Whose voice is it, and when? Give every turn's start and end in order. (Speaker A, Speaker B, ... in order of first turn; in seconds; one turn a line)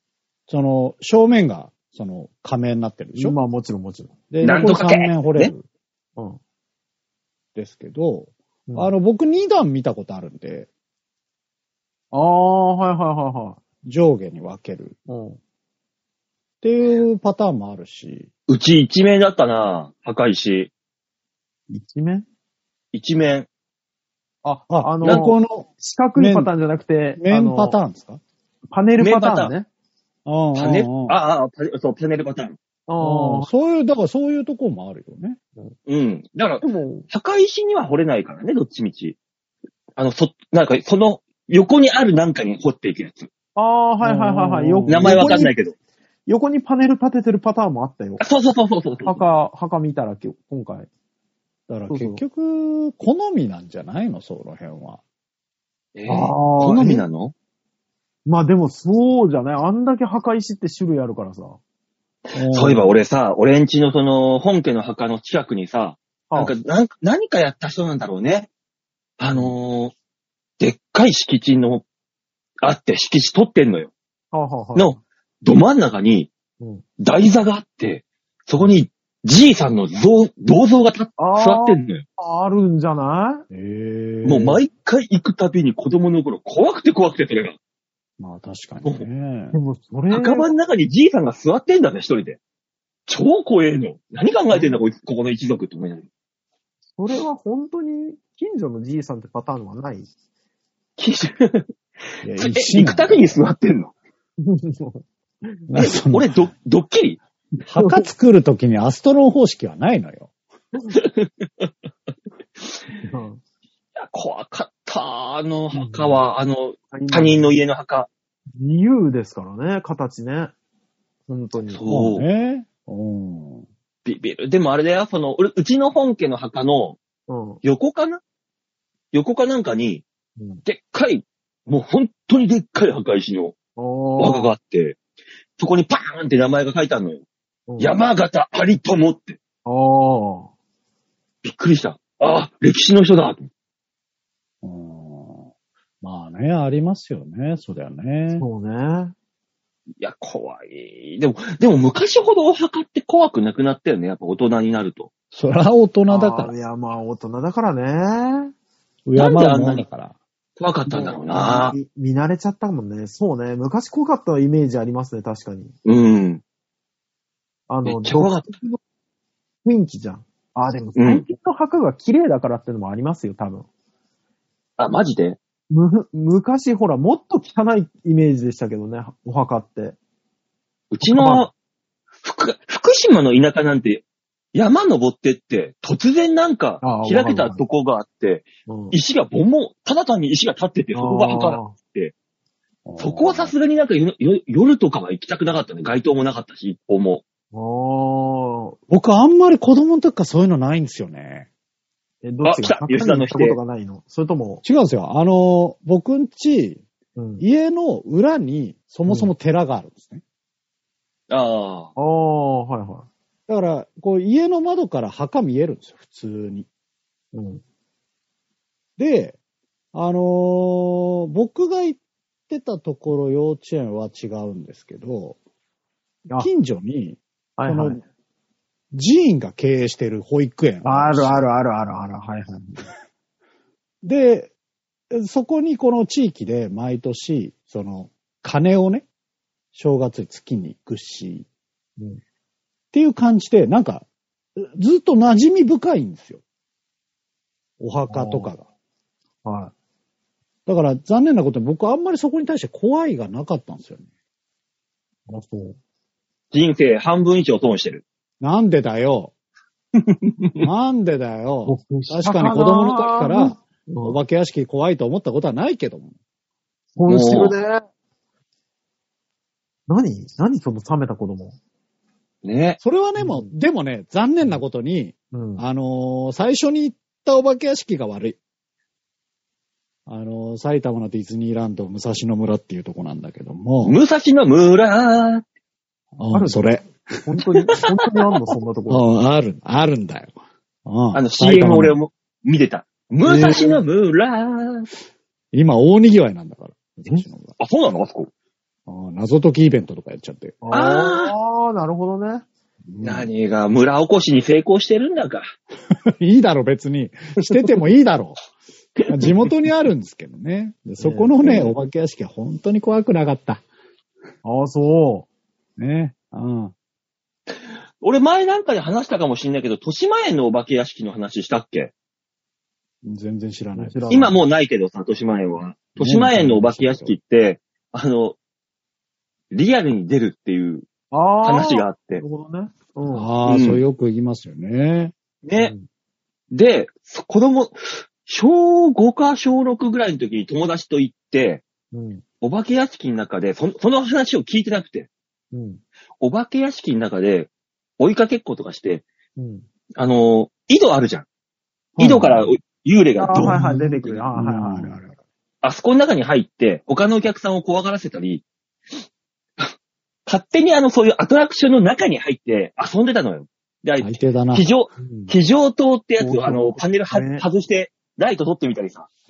Speaker A: 0.5-3.4
Speaker B: 3.1-4.1
Speaker A: 4.3-5.6
Speaker C: 4.4-5.5
Speaker A: 7.5-10.7
Speaker B: 12.1-13.6
Speaker A: 13.8-14.9
Speaker B: 15.1-15.4
Speaker A: 16.6-18.3
Speaker C: 18.5-20.7
Speaker B: 21.7-22.2
Speaker C: 22.9-23.5
Speaker B: 24.4-27.8
Speaker A: 24.7-26.5
Speaker A: 27.2-28.2
Speaker B: 28.7-29.7
Speaker C: 29.0-29.5
Speaker A: 30.2-31.2
Speaker C: 30.6-32.6
Speaker B: 32.9-33.5
Speaker A: 33.0-35.4
Speaker C: 35.9-39.2
Speaker B: 36.6-37.1
Speaker C: 40.0-43.3
Speaker B: 43.5-45.5
Speaker A: 44.0-45.5
Speaker C: 44.9-45.7
Speaker B: 46.3-48.2
Speaker C: 48.2-49.3
Speaker B: 49.0-50.9
Speaker A: 51.7-55.0
Speaker B: 51.9-52.2
Speaker C: 55.9-57.3
Speaker B: 56.1-57.0
Speaker B: 58.2-61.6
Speaker A: 62.3-62.9
Speaker C: 62.3-68.5
Speaker C: 69.2-69.9
Speaker C: 70.6-71.8
Speaker C: 72.6-73.9
Speaker B: 74.3-74.9
Speaker C: 74.7-76.3
Speaker C: 77.0-82.0
Speaker B: 81.2-83.5
Speaker A: 83.5-84.6
Speaker C: 84.2-87.5
Speaker A: 88.2-89.6
Speaker B: 89.5-90.5
Speaker C: 90.1-92.4
Speaker C: 93.1-96.1
Speaker B: 94.5-94.8
Speaker B: 96.9-100.1
Speaker C: 101.0-101.7
Speaker A: 102.2-103.4
Speaker C: 102.4-103.9
Speaker B: 104.4-105.7
Speaker A: 105.7-106.3
Speaker C: 105.7-107.2
Speaker A: 107.7-110.3
Speaker B: 107.7-108.0
Speaker C: 110.9-111.7
Speaker B: 113.0-113.4
Speaker C: 114.0-118.1
Speaker B: 115.7-116.2
Speaker B: 116.9-117.5
Speaker B: 118.6-120.5
Speaker B: 121.3-121.8
Speaker C: 121.7-122.2
Speaker A: 121.9-123.7
Speaker C: 124.0-127.0
Speaker B: 127.3-127.6
Speaker C: 127.6-128.2
Speaker C: 129.1-130.0
Speaker C: 130.6-133.6
Speaker B: 133.8-134.5
Speaker C: 134.2-135.0
Speaker C: 135.6-137.2
Speaker B: 137.7-138.0
Speaker C: 137.8-139.4
Speaker B: 139.7-140.5
Speaker C: 141.4-143.5
Speaker A: 144.6-145.5
Speaker A: 146.0-148.4
Speaker B: 148.3-149.1
Speaker C: 150.0-155.1
Speaker A: 155.3-156.5
Speaker B: 156.1-158.5
Speaker A: 159.1-160.1
Speaker C: 159.2-159.8
Speaker C: 160.6-161.8
Speaker B: 160.9-165.7
Speaker C: 165.8-166.4
Speaker B: 167.7-168.8
Speaker C: 167.8-168.5
Speaker B: 169.6-173.7
Speaker C: 170.9-171.2
Speaker C: 174.8-175.4
Speaker B: 175.7-179.9
Speaker C: 180.9-181.5
Speaker B: 181.0-181.5
Speaker C: 182.2-192.1
Speaker B: 186.8-187.6
Speaker B: 188.7-189.0
Speaker B: 190.9-191.8
Speaker A: 192.8-193.5
Speaker C: 193.0-197.2
Speaker B: 197.5-198.8
Speaker A: 198.9-201.5
Speaker B: 202.2-204.6
Speaker C: 202.4-203.6
Speaker A: 204.6-206.8
Speaker B: 207.2-207.4
Speaker A: 207.4-210.2
Speaker C: 211.3-211.9
Speaker B: 211.9-213.1
Speaker A: 213.5-216.7
Speaker B: 217.3-217.6
Speaker A: 219.0-219.4
Speaker A: 219.9-225.4
Speaker A: 226.4-228.0
Speaker B: 227.6-228.0
Speaker A: 228.9-231.4
Speaker B: 230.8-232.8
Speaker A: 234.0-234.5
Speaker A: 235.1-239.1
Speaker A: 239.7-241.4
Speaker A: 242.9-244.0
Speaker A: 244.6-246.4
Speaker A: 247.8-248.7
Speaker B: 248.1-248.5
Speaker B: 249.4-249.7
Speaker A: 250.7-254.0
Speaker B: 255.3-255.8
Speaker C: 256.5-258.0
Speaker A: 258.4-259.3
Speaker C: 260.0-260.6
Speaker A: 260.6-266.1
Speaker B: 261.6-264.2
Speaker B: 266.9-267.8
Speaker C: 267.1-267.6
Speaker B: 269.9-271.6
Speaker C: 272.4-272.8
Speaker A: 272.8-278.4
Speaker B: 273.2-273.6
Speaker B: 275.3-275.6
Speaker A: 280.1-284.0
Speaker C: 283.8-285.4
Speaker A: 286.2-287.0
Speaker B: 286.3-286.7
Speaker B: 287.2-289.0
Speaker A: 288.9-290.3
Speaker A: 290.9-291.9
Speaker C: 291.1-294.9
Speaker B: 293.2-293.8
Speaker A: 295.5-297.6
Speaker C: 297.6-298.3
Speaker A: 298.9-300.6
Speaker B: 300.6-302.4
Speaker C: 300.7-301.3
Speaker A: 302.9-303.3
Speaker C: 303.0-305.4
Speaker A: 306.1-308.4
Speaker C: 309.0-309.3
Speaker A: 309.1-313.6
Speaker B: 311.0-311.7
Speaker B: 314.4-315.3
Speaker A: 315.8-316.7
Speaker C: 318.0-321.9
Speaker A: 323.0-324.3
Speaker B: 323.7-324.4
Speaker C: 324.1-328.4
Speaker A: 326.0-327.1
Speaker C: 329.5-330.9
Speaker B: 331.1-333.3
Speaker C: 331.4-332.2
Speaker A: 333.1-335.1
Speaker C: 333.5-333.8
Speaker C: 335.4-335.7
Speaker B: 335.6-335.9
Speaker C: 336.5-341.6
Speaker B: 341.9-342.2
Speaker C: 342.4-345.1
Speaker B: 345.5-345.8
Speaker C: 346.2-349.0
Speaker B: 349.4-349.6
Speaker C: 350.0-351.3
Speaker C: 352.0-354.2
Speaker B: 352.0-352.3
Speaker A: 352.0-352.4
Speaker B: 353.2-355.1
Speaker A: 353.3-355.1
Speaker C: 355.6-358.4
Speaker C: 360.2-369.1
Speaker A: 364.0-364.6
Speaker B: 365.0-365.3
Speaker B: 366.2-367.4